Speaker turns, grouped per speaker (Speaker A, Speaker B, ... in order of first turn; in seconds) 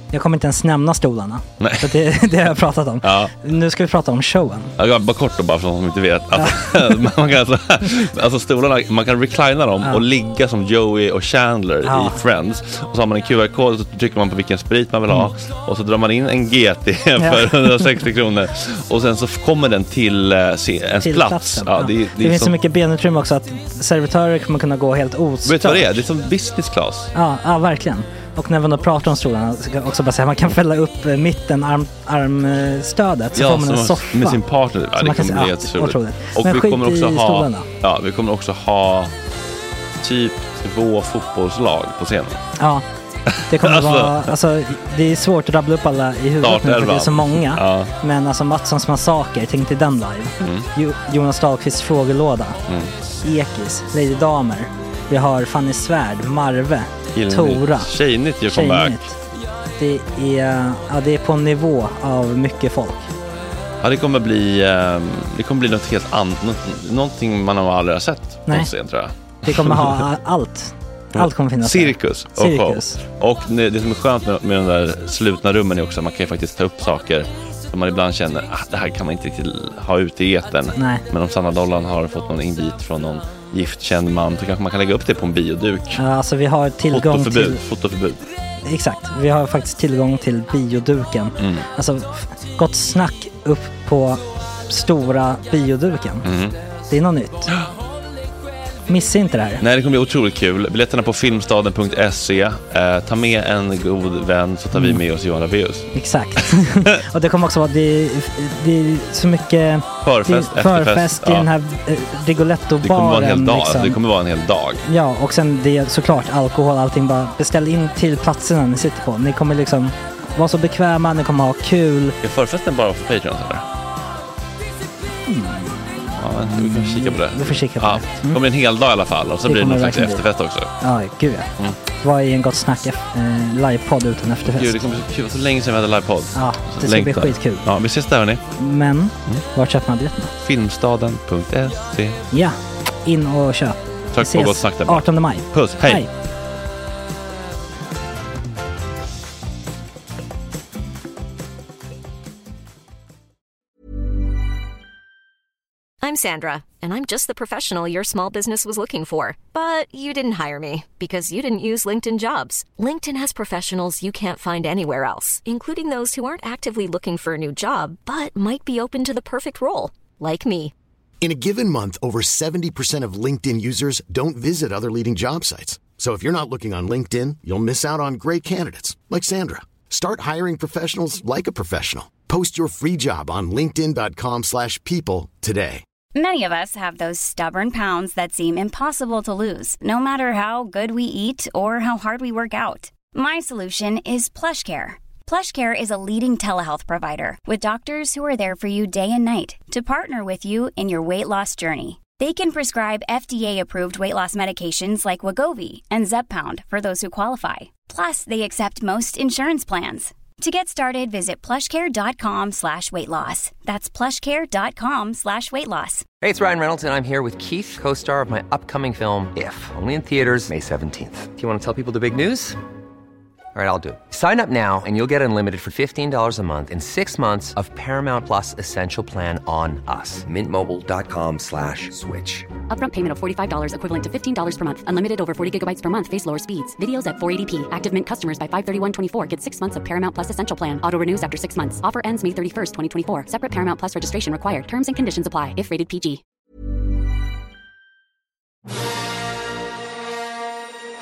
Speaker A: 0.1-4.7, 11.8-12.2, 17.2-17.9, 21.0-26.1, 27.1-34.4, 34.9-37.7, 42.6-42.8, 43.5-52.6, 53.2-58.0, 58.5-59.2, 59.8-63.1, 69.5-73.0, 80.7-81.0, 86.0-87.6, 88.6-96.3, 96.9-97.5, 98.9-99.6, 104.7-105.0, 105.9-114.0, 114.8-122.2, 125.3-128.4, 129.4-130.2, 130.8-134.8, 136.3-137.7, 138.6-140.3, 142.3-146.1
Speaker B: 1.6-1.9, 3.0-3.3, 4.8-22.6, 25.4-27.1, 33.3-39.1, 40.0-42.4, 43.3-44.3, 46.4-47.9, 50.4-50.7, 57.1-59.1, 63.8-70.1, 71.1-86.0, 86.9-88.2, 91.4-91.6, 96.2-96.5, 99.6-105.9, 110.0-111.5, 112.8-114.8, 122.2-123.6, 126.2-130.7, 134.5-138.4, 140.4-142.2, 144.1-146.0
Speaker C: 156.0-170.7
Speaker D: 171.2-185.8
Speaker E: 186.1-216.1
Speaker F: 216.2-222.6, 223.5-232.5
Speaker G: 232.7-246.2